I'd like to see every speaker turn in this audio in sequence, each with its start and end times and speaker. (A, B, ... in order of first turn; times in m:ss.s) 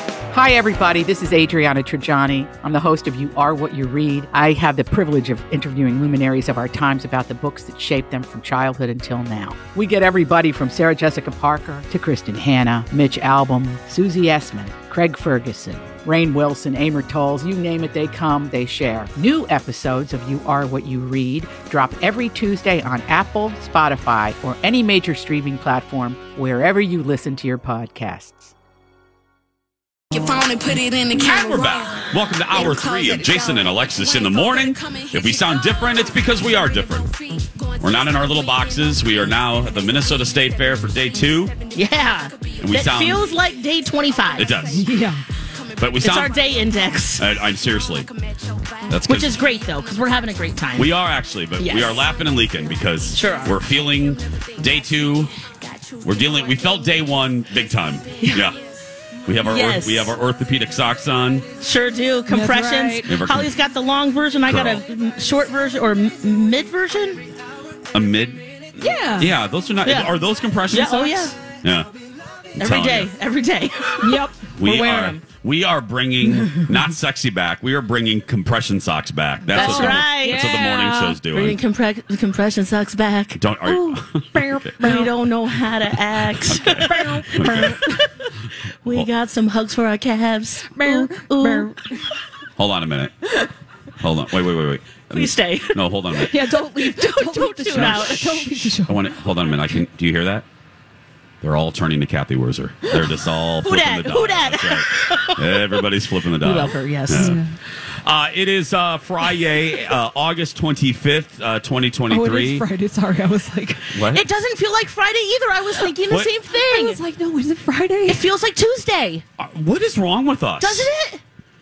0:00.3-0:28.5 A
0:30.1-0:35.8 B
0:31.2-0:37.1 C
0:37.0-0:38.3 B
0:37.8-0:41.6 C
0:41.7-0:44.6 D
0:42.6-0:43.3 C
0:44.4-0:44.9 C
0:44.7-0:45.2 E
0:45.8-0:46.4 C
0:46.0-0:47.3 D
0:47.2-0:48.1 C
0:48.9-0:49.4 C
0:49.1-0:51.0 D
0:50.8-0:55.3 C
0:51.6-0:52.0 D
0:53.1-0:53.6 D
0:56.0-0:58.6 C
0:58.2-0:58.5 D
0:59.2-1:01.5 C
0:59.4-1:00.1 D
1:01.6-1:07.3 D
1:02.3-1:03.1 E
1:03.0-1:03.5 C
1:04.5-1:04.8 C
1:07.9-1:11.9 C
1:08.8-1:09.3 E
1:09.8-1:10.1 D
1:10.7-1:11.4 D
1:12.6-1:15.2 D
1:12.6-1:13.1 C
1:14.0-1:14.4 E
1:14.6-1:21.6 C
1:19.5-1:23.9 D
1:19.6-1:21.1 E
1:23.4-1:24.8 C
1:24.3-1:25.1 E
1:24.8-1:28.3 D
1:26.4-1:27.8 C
1:27.0-1:27.9 E
1:28.8-1:31.7 D
1:30.8-1:31.8 E
1:32.6-1:33.2 C
1:34.0-1:36.4 C
1:35.1-1:38.4 D
1:36.3-1:39.0 E
1:37.7-1:40.5 C
1:41.4-1:52.6 C
1:43.6-1:45.9 D
1:46.4-1:47.4 D
1:47.2-1:47.5 E
1:52.1-1:53.9 E
1:53.9-1:54.2 C
1:54.1-1:57.0 D
1:56.5-1:58.2 E
1:58.1-1:59.2 D
1:59.4-2:00.9 C
2:00.6-2:01.2 D